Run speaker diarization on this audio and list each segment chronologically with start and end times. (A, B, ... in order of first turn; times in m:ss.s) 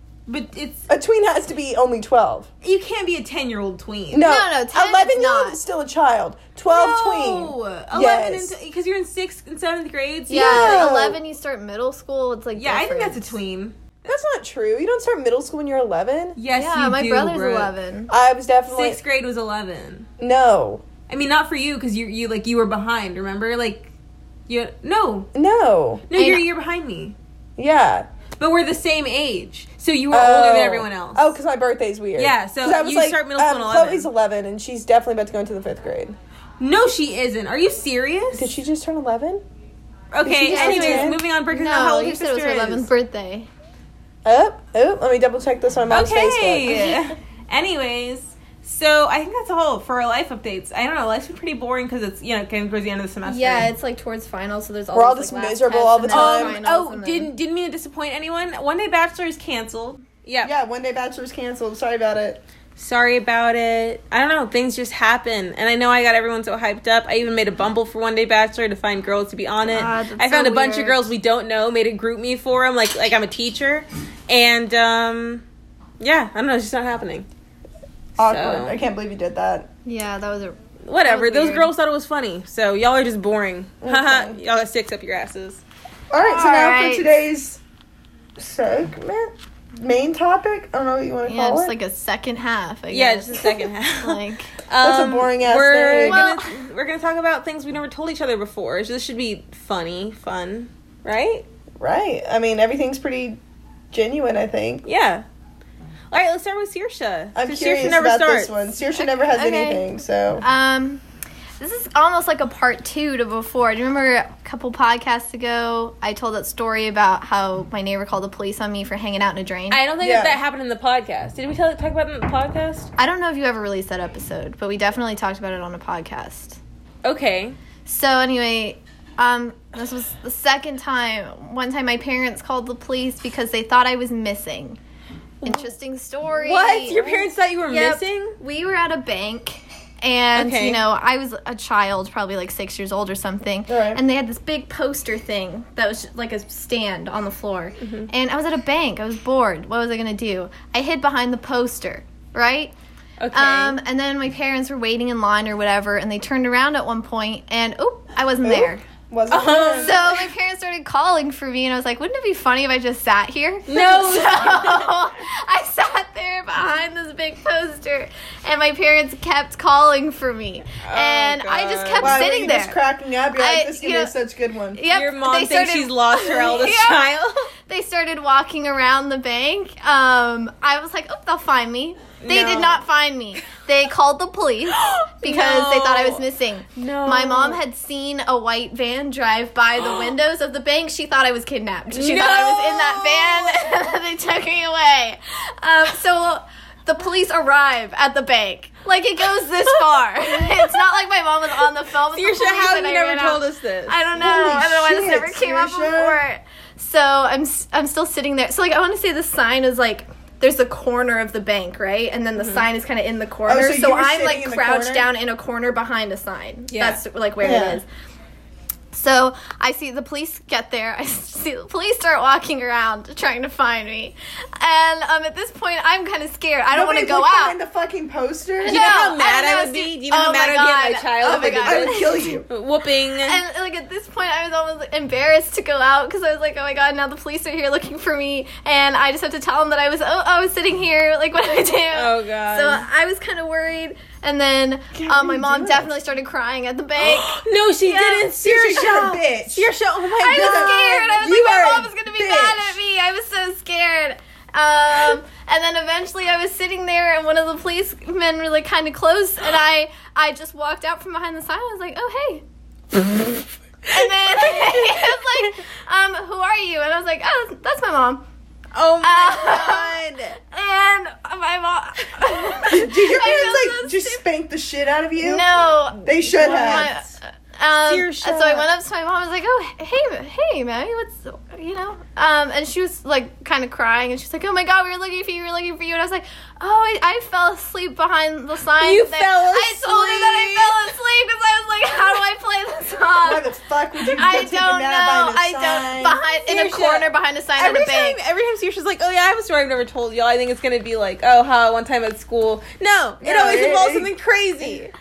0:00.3-0:00.9 A
0:00.9-0:02.5 B
0:02.6-0:04.3 A
0:04.1-0:08.6 B
0:04.2-0:05.6 C
0:06.7-0:10.9 A
0:10.3-0:11.2 B
0:10.3-0:13.3 C
0:12.6-0:13.7 A
0:14.0-0:16.4 B
0:16.4-0:17.7 A
0:16.5-0:18.1 C
0:18.1-0:19.0 B
0:18.7-0:20.1 A
0:20.2-0:20.8 B
0:21.1-0:23.9 A
0:24.5-0:25.3 A
0:25.3-0:26.1 B
0:26.1-0:27.2 A
0:26.1-0:26.4 C
0:27.6-0:28.1 B
0:28.4-0:31.4 A
0:30.1-0:36.1 B
0:32.2-0:34.1 A
0:36.6-0:38.5 A
0:38.3-0:39.4 B
0:40.1-0:42.9 A
0:40.2-0:41.2 B
0:40.5-0:43.5 C
0:44.2-0:46.8 B
0:45.9-0:53.7 A
0:46.7-0:47.1 C
0:53.2-0:57.3 C
0:54.9-0:56.6 B
0:56.1-1:00.5 A
1:00.4-1:02.4 B
1:02.8-1:15.4 A
1:09.7-1:11.0 C
1:16.0-1:17.3 A
1:18.2-1:19.7 B
1:18.2-1:18.8 A
1:19.8-1:21.7 C
1:20.9-1:25.6 A
1:23.8-1:24.4 B
1:26.1-1:27.6 B
1:26.2-1:27.1 C
1:28.4-1:31.7 B
1:31.2-1:34.5 C
1:32.9-1:41.4 A
1:34.8-1:36.2 B
1:36.0-1:36.6 C
1:41.8-1:43.4 B
1:43.9-1:44.8 B
1:44.8-1:45.2 A
1:46.1-1:48.6 A
1:47.3-1:50.4 B
1:49.0-1:49.8 C
1:50.4-1:51.0 C
1:51.6-1:59.8 C
1:59.7-2:02.9 A
2:00.0-2:00.4 B
2:03.0-2:06.6 C
2:07.0-2:07.6 A
2:07.8-2:14.8 C
2:15.4-2:15.7 A
2:15.4-2:32.7 C
2:16.3-2:18.3 A
2:20.3-2:20.8 A
2:23.7-2:24.0 B
2:27.8-2:28.1 A
2:33.2-2:33.8 A
2:33.3-2:38.8 C
2:38.4-2:40.0 B
2:39.3-2:40.3 A
2:39.8-2:52.8 C
2:43.7-2:45.0 A
2:50.8-2:52.2 A
2:52.0-2:54.8 B
2:53.3-2:54.1 C
2:54.8-2:57.0 C
2:54.9-2:57.5 A
2:57.7-3:37.8 C
3:02.2-3:02.8 A
3:04.7-3:06.2 A
3:06.8-3:07.6 A
3:09.8-3:10.1 A
3:11.9-3:13.6 A
3:22.1-3:24.1 A
3:24.2-3:26.2 B
3:32.4-3:32.6 A
3:33.4-3:35.0 B
3:36.7-3:37.0 A
3:37.4-3:37.8 B
3:38.9-3:47.6 C
3:46.7-3:49.0 B
3:48.6-3:52.4 C
3:48.6-3:53.4 A
3:51.2-3:52.4 B
3:53.2-4:08.3 C
4:01.9-4:02.8 A
4:04.9-4:05.9 B
4:07.0-4:11.3 A
4:08.4-4:09.7 B
4:10.2-4:22.4 C
4:10.2-4:12.8 B
4:23.9-4:28.2 C
4:24.3-4:25.2 A
4:28.7-4:30.4 A
4:29.0-4:34.2 C
4:32.6-4:35.4 B
4:35.2-4:53.5 C
4:36.0-4:36.9 B
4:36.3-4:37.1 A
4:37.8-4:38.6 A
4:48.8-4:50.8 A
4:53.2-4:56.2 B
4:54.0-4:58.2 C
4:56.4-5:04.9 A
5:03.2-5:04.1 B